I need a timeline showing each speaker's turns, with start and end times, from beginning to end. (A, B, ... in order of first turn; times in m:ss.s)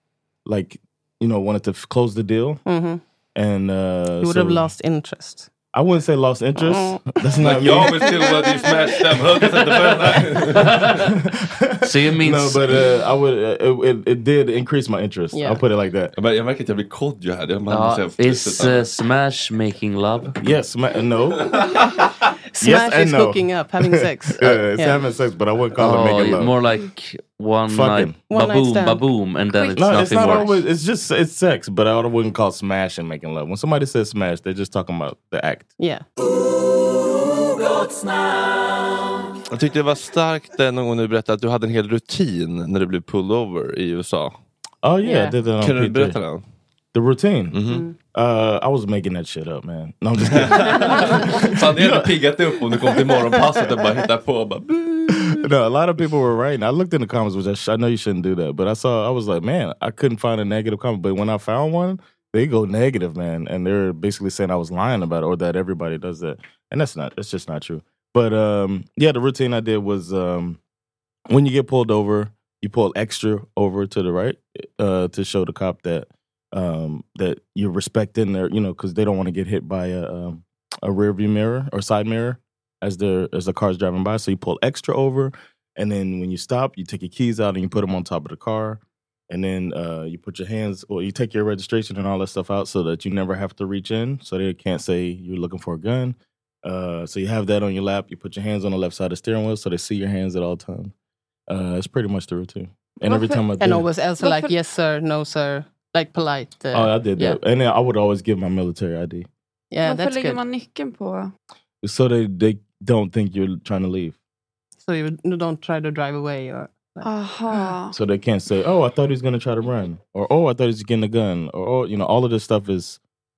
0:00.5-0:02.6 A
0:02.7-0:03.0 B
0:03.4-0:04.7 A
0:04.2-0:05.5 B
0:05.7-0:08.2 A
0:06.6-0:07.2 B
0:07.4-0:10.8 C
0:08.0-0:08.9 B
0:09.7-0:16.1 A
0:10.6-0:11.1 D
0:11.8-0:12.7 D
0:15.3-0:15.6 B
0:16.2-0:18.9 C
0:17.7-0:20.4 D
0:20.4-0:22.0 A
0:22.5-0:25.0 B
0:22.6-0:26.6 A
0:25.8-0:30.5 D
0:27.7-0:28.2 A
0:28.3-0:29.0 B
0:29.5-0:30.6 E
0:29.8-0:35.7 A
0:35.8-0:36.0 B
0:39.5-0:44.4 C
0:44.8-0:46.2 A
0:45.0-0:45.4 B
0:45.6-0:46.4 C
0:46.9-0:52.2 A
0:47.5-0:47.8 C
0:50.2-0:55.4 C
0:55.1-1:10.6 A
1:11.3-1:40.9 A
1:41.5-1:43.8 A
1:43.1-1:43.4 E
1:43.6-1:47.4 B
1:44.2-1:44.6 E
1:46.7-1:49.3 A
1:49.7-1:50.4 B
1:49.8-1:51.3 E
1:51.8-1:54.2 A
1:54.8-1:57.7 B
1:57.0-1:58.0 E
1:57.9-2:03.0 A